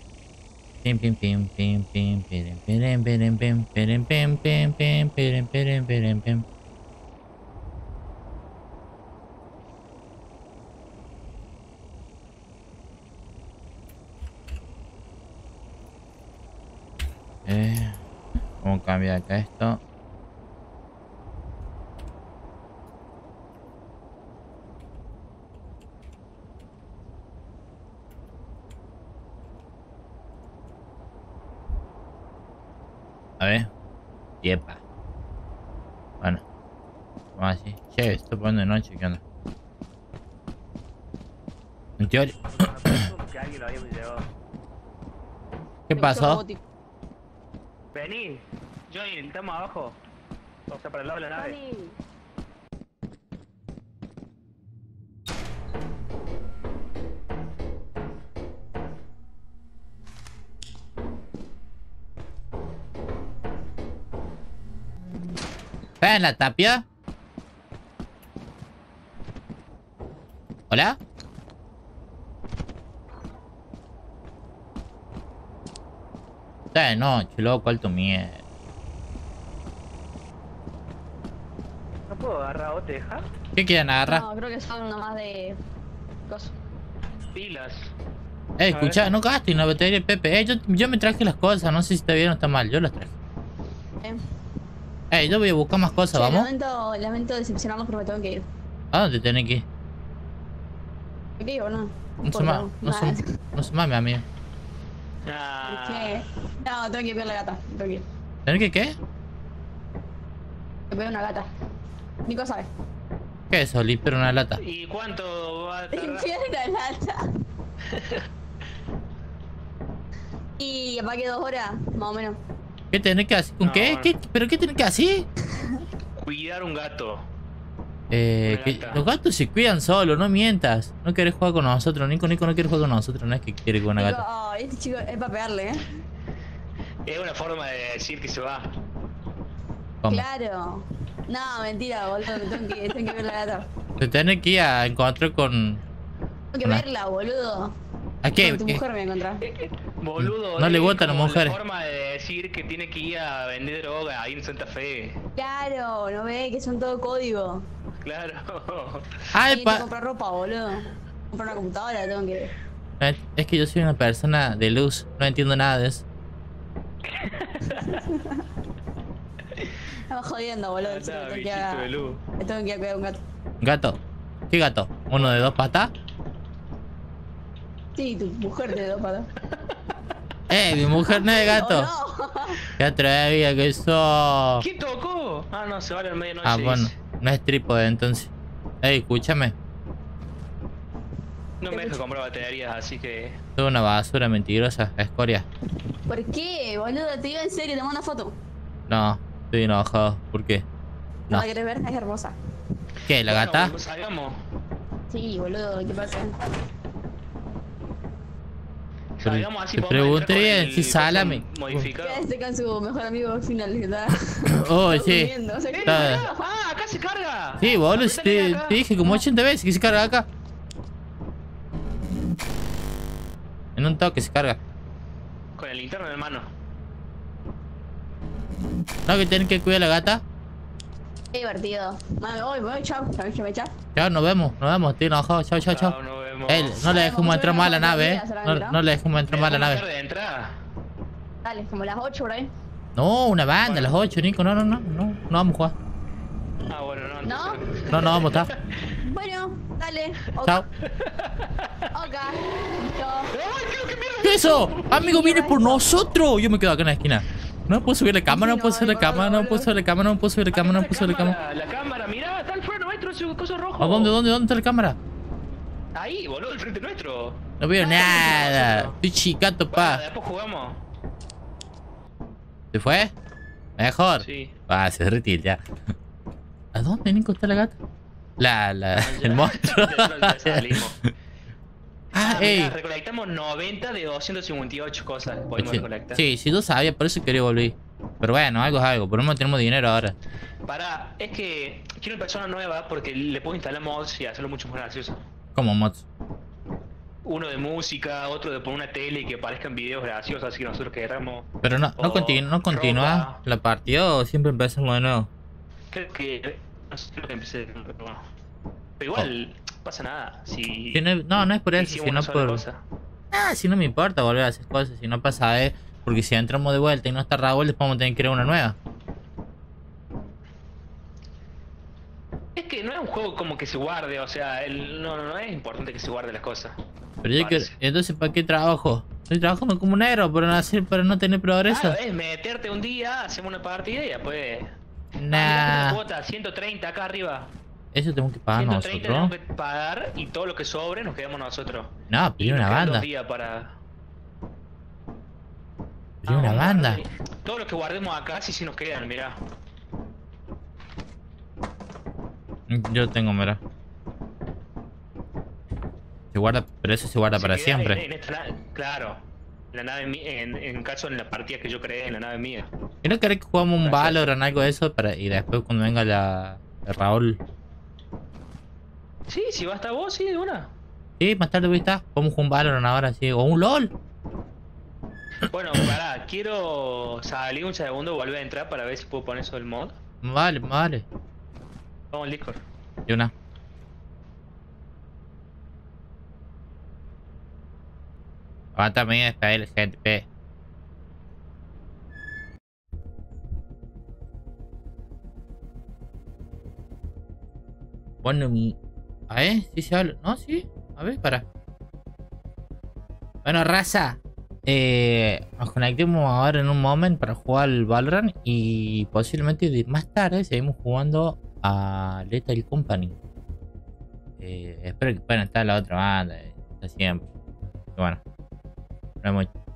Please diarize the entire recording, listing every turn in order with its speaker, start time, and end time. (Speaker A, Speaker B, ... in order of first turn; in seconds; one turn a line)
Speaker A: 0.8-6.5
Speaker A: 17.4-18.0
Speaker A: 18.6-19.8
Speaker A: 33.4-33.7
Speaker A: 34.4-34.8
Speaker A: 37.4-39.2
Speaker A: 42.0-43.1
Speaker B: 42.5-44.3
Speaker A: 45.9-46.4
Speaker C: 46.0-46.6
Speaker B: 47.9-50.0
Speaker B: 50.7-51.5
Speaker C: 51.3-52.0
Speaker A: 66.0-66.8
Speaker A: 70.7-71.0
Speaker A: 76.7-78.4
Speaker B: 82.1-83.3
Speaker A: 83.5-84.2
Speaker C: 84.0-85.6
Speaker C: 86.3-86.5
Speaker B: 87.3-87.9
Speaker A: 88.6-93.1
Speaker B: 88.7-89.0
Speaker A: 95.1-96.5
Speaker C: 96.1-98.5
Speaker A: 98.9-99.6
Speaker C: 101.4-103.2
Speaker A: 102.2-104.2
Speaker B: 105.2-106.2
Speaker C: 105.7-108.0
Speaker A: 108.5-108.9
Speaker C: 110.9-111.5
Speaker C: 112.2-112.7
Speaker A: 113.5-114.6
Speaker B: 114.6-116.3
Speaker C: 115.9-117.2
Speaker B: 117.9-118.2
Speaker C: 120.6-122.4
Speaker A: 122.9-125.3
Speaker B: 123.6-124.1
Speaker B: 126.2-127.2
Speaker A: 128.1-134.2
Speaker B: 128.4-129.0
Speaker C: 134.0-135.9
Speaker B: 137.1-138.7
Speaker C: 140.1-143.7
Speaker B: 142.4-142.8
Speaker A: 144.0-145.8
Speaker C: 146.5-147.7
Speaker A: 148.2-148.8
Speaker C: 148.4-149.4
Speaker B: 149.4-155.2
Speaker A: 150.2-151.6
Speaker C: 155.3-157.7
Speaker B: 158.0-159.2
Speaker A: 159.3-159.8
Speaker C: 159.5-162.5
Speaker A: 163.0-166.0
Speaker B: 167.1-168.0
Speaker C: 167.7-168.4
Speaker C: 170.1-171.9
Speaker B: 170.8-172.2
Speaker C: 172.4-173.2
Speaker A: 173.6-174.0
Speaker A: 174.5-175.9
Speaker B: 175.1-175.6
Speaker C: 177.9-179.3
Speaker A: 180.5-181.9
Speaker C: 181.1-182.6
Speaker A: 182.8-184.7
Speaker B: 184.6-186.9
Speaker A: 186.4-188.3
Speaker A: 188.8-189.5
Speaker B: 191.6-193.4
Speaker C: 191.7-192.0
Speaker A: 193.6-195.4
Speaker C: 196.1-198.4
Speaker A: 198.9-200.6
Speaker C: 201.3-202.3
Speaker A: 203.1-203.7
Speaker B: 203.2-204.4
Speaker C: 205.1-206.3
Speaker B: 209.2-212.2
Speaker A: 209.2-211.9
Speaker C: 212.0-216.3
Speaker A: 214.5-215.3
Speaker B: 215.7-218.8
Speaker A: 215.8-216.2
Speaker A: 217.6-220.2
Speaker A: 223.8-224.6
Speaker B: 225.6-226.5
Speaker A: 229.1-230.2
Speaker C: 231.3-233.7
Speaker A: 233.9-235.9
Speaker B: 235.6-236.8
Speaker A: 236.5-239.8
Speaker C: 236.8-238.8
Speaker B: 239.3-240.5
Speaker C: 241.4-242.5
Speaker A: 242.9-245.7
Speaker B: 243.6-243.9
Speaker B: 246.7-248.5
Speaker C: 247.2-248.2
Speaker A: 247.9-248.5
Speaker C: 249.0-250.6
Speaker B: 250.8-251.9
Speaker C: 251.9-253.3
Speaker B: 253.3-254.9
Speaker A: 254.2-261.4
Speaker C: 254.7-255.8
Speaker C: 258.3-259.7
Speaker B: 260.5-264.1
Speaker A: 263.8-265.0
Speaker B: 265.9-268.9
Speaker A: 267.6-270.0
Speaker C: 268.2-268.5
Speaker B: 269.7-270.8
Speaker A: 272.7-273.1
Speaker A: 273.8-275.6
Speaker B: 274.2-274.5
Speaker A: 276.7-277.8
Speaker A: 278.4-280.8
Speaker B: 278.9-281.0
Speaker A: 282.1-282.7
Speaker B: 282.1-286.2
Speaker A: 285.6-290.1
Speaker B: 290.7-295.2
Speaker A: 295.5-296.0
Speaker B: 297.2-301.5
Speaker A: 301.6-305.3
Speaker B: 302.0-303.4
Speaker B: 305.9-308.2
Speaker B: 309.0-311.0
Speaker A: 310.9-312.6
Speaker B: 311.7-312.8
Speaker A: 313.3-318.8
Speaker B: 322.6-326.8
Speaker A: 327.2-332.0
Speaker B: 327.4-327.7
Speaker B: 331.7-334.7
Speaker A: 335.2-336.0
Speaker B: 335.3-337.5
Speaker A: 337.9-339.3
Speaker B: 338.5-343.8
Speaker A: 342.1-343.1
Speaker A: 346.2-347.0
Speaker B: 346.3-349.4
Speaker A: 352.7-353.6
Speaker A: 356.3-358.0
Speaker B: 357.3-359.2
Speaker B: 359.7-362.7
Speaker A: 363.0-367.4
Speaker B: 363.8-364.2
Speaker B: 369.3-370.7
Speaker A: 371.2-373.9
Speaker B: 375.5-379.9
Speaker A: 380.2-381.0
Speaker B: 382.1-382.6
Speaker A: 388.8-390.2
Speaker A: 398.2-398.8
Speaker A: 399.3-401.4
Speaker A: 403.4-413.1
Speaker A: 414.4-417.2
Speaker A: 419.2-419.5